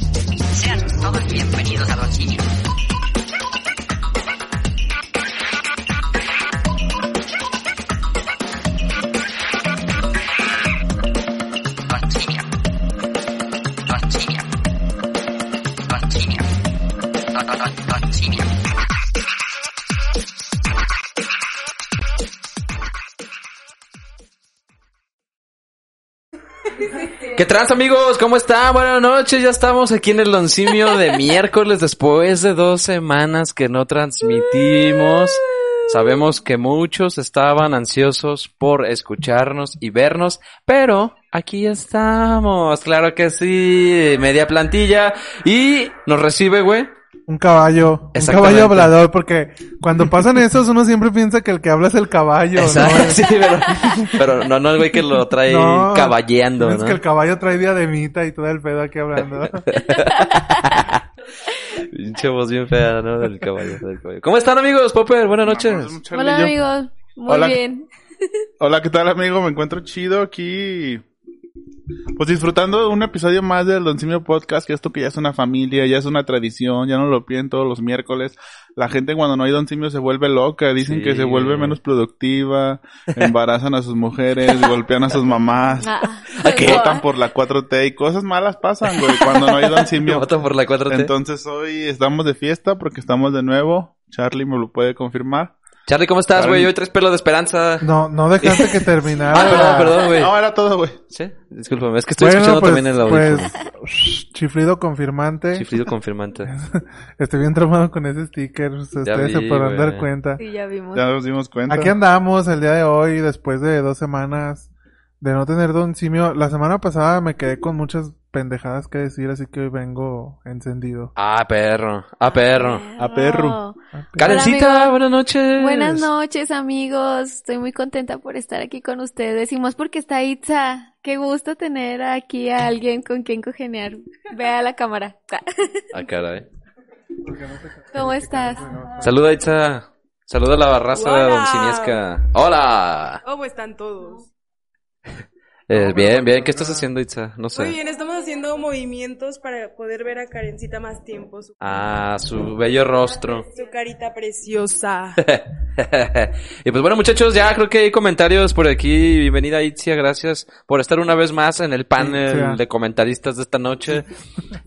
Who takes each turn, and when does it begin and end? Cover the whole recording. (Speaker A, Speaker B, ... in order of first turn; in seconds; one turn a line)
Speaker A: 1.2-2.2
Speaker A: 27.2-46.9
Speaker B: 47.3-54.2
Speaker A: 48.1-49.0
Speaker A: 52.6-57.0
Speaker B: 55.4-59.7
Speaker A: 59.6-66.0
Speaker C: 65.4-66.5
Speaker D: 66.1-67.8
Speaker C: 67.3-67.6
Speaker C: 68.6-71.0
Speaker C: 72.2-90.3
Speaker A: 80.8-81.8
Speaker A: 84.5-84.8
Speaker D: 85.8-87.0
Speaker A: 86.3-86.9
Speaker A: 89.1-91.1
Speaker C: 90.9-95.5
Speaker A: 95.8-97.9
Speaker C: 96.3-96.7
Speaker B: 97.8-100.0
Speaker A: 98.4-100.3
Speaker C: 99.3-101.0
Speaker A: 101.1-103.5
Speaker B: 102.2-105.7
Speaker A: 105.5-106.5
Speaker B: 106.5-110.4
Speaker A: 109.0-110.1
Speaker D: 110.4-111.1
Speaker C: 110.9-111.9
Speaker B: 111.7-114.7
Speaker B: 115.2-121.1
Speaker A: 121.2-122.8
Speaker D: 122.2-124.9
Speaker C: 123.0-123.6
Speaker B: 124.0-124.5
Speaker A: 124.2-126.1
Speaker D: 125.6-135.8
Speaker A: 135.9-136.4
Speaker B: 137.2-139.2
Speaker D: 137.9-138.7
Speaker A: 139.0-143.2
Speaker E: 140.9-142.0
Speaker E: 143.2-144.3
Speaker A: 145.7-147.8
Speaker B: 145.7-146.9
Speaker E: 147.5-151.5
Speaker A: 151.6-153.4
Speaker E: 153.4-155.2
Speaker A: 155.2-164.1
Speaker B: 162.0-162.6